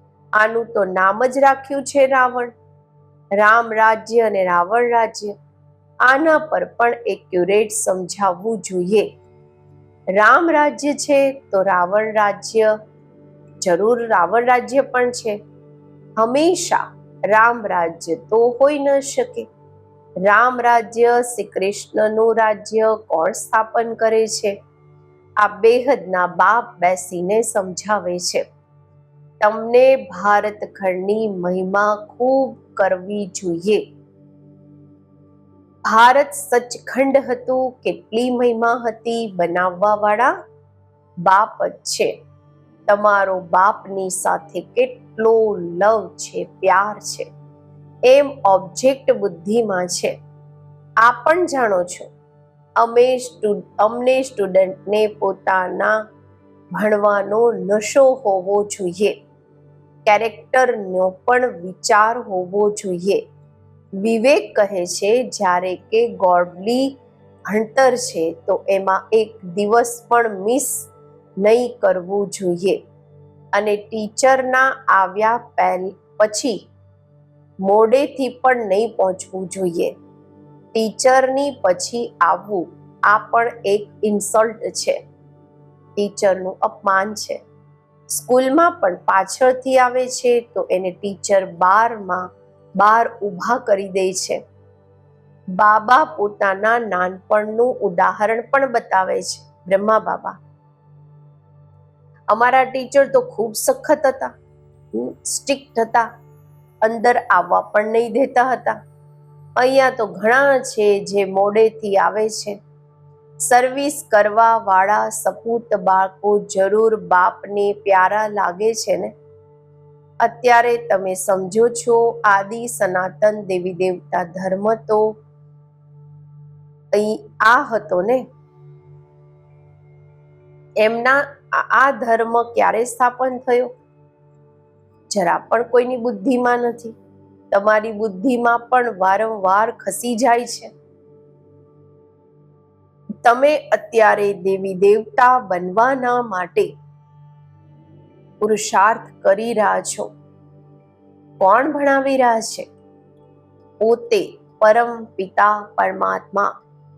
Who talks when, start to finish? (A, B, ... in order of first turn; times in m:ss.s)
0:00.4-0:02.5 A
0:03.4-0:05.3 A
0:06.0-0:09.1 A
0:10.2-0:12.7 A
0:13.6-0:15.4 A
0:16.2-0:19.5 A
0:20.2-0:24.6 A
0:25.4-0:28.4 A
0:29.4-0:33.8 A
0:35.8-0:40.3 A
0:41.2-0:42.1 A
0:42.9-0:47.3 A
0:48.0-0:50.1 A
0:51.0-0:52.1 A
0:52.8-0:56.0 A
0:56.7-0:59.2 A
1:00.0-1:03.2 A
1:04.0-1:07.0 A
1:07.5-1:10.9 A
1:11.4-1:12.8 A
1:13.5-1:16.6 A
1:17.6-1:19.9 A
1:20.7-1:25.0 A
1:26.0-1:27.4 A
1:28.1-1:32.3 A
1:32.8-1:34.4 A
1:35.6-1:40.4 A
1:42.3-1:44.3 A
1:44.9-1:46.1 A
1:46.8-1:48.8 A
1:49.6-1:52.6 A
1:53.4-1:59.1 A
2:00.2-2:05.2 A
2:06.9-2:08.2 A
2:10.8-2:13.7 A
2:15.1-2:17.0 A
2:17.5-2:20.7 A
2:23.2-2:26.7 A
2:28.4-2:30.1 A
2:31.4-2:32.7 A
2:33.8-2:36.5 A